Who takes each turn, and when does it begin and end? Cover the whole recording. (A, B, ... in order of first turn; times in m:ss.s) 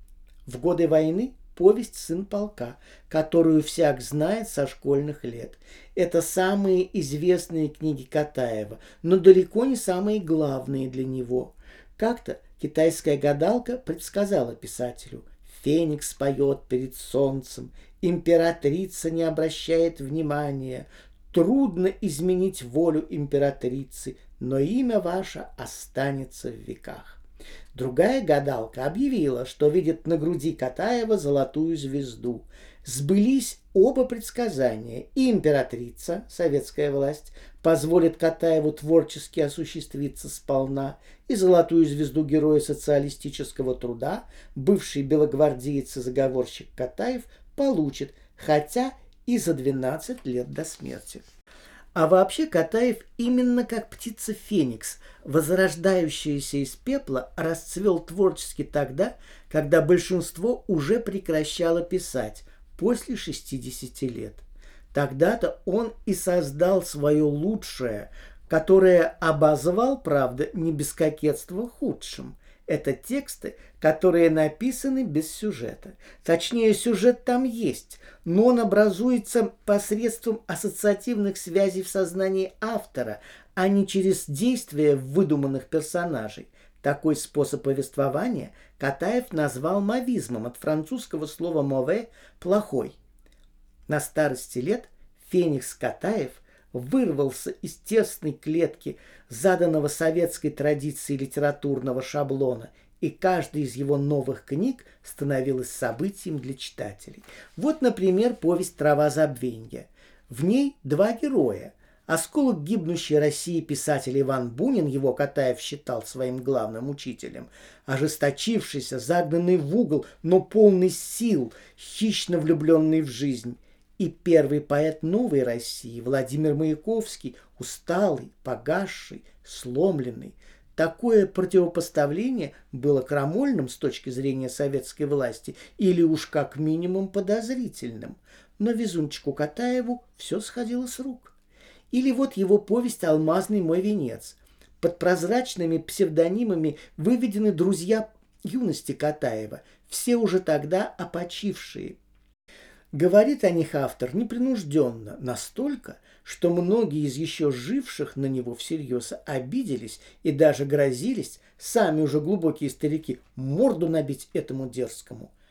0:00.4-0:27.2 A
0:27.7-0:51.2 A
0:51.9-1:33.0 A
1:33.9-2:21.3 A
2:21.9-2:32.0 A
2:32.9-2:45.3 A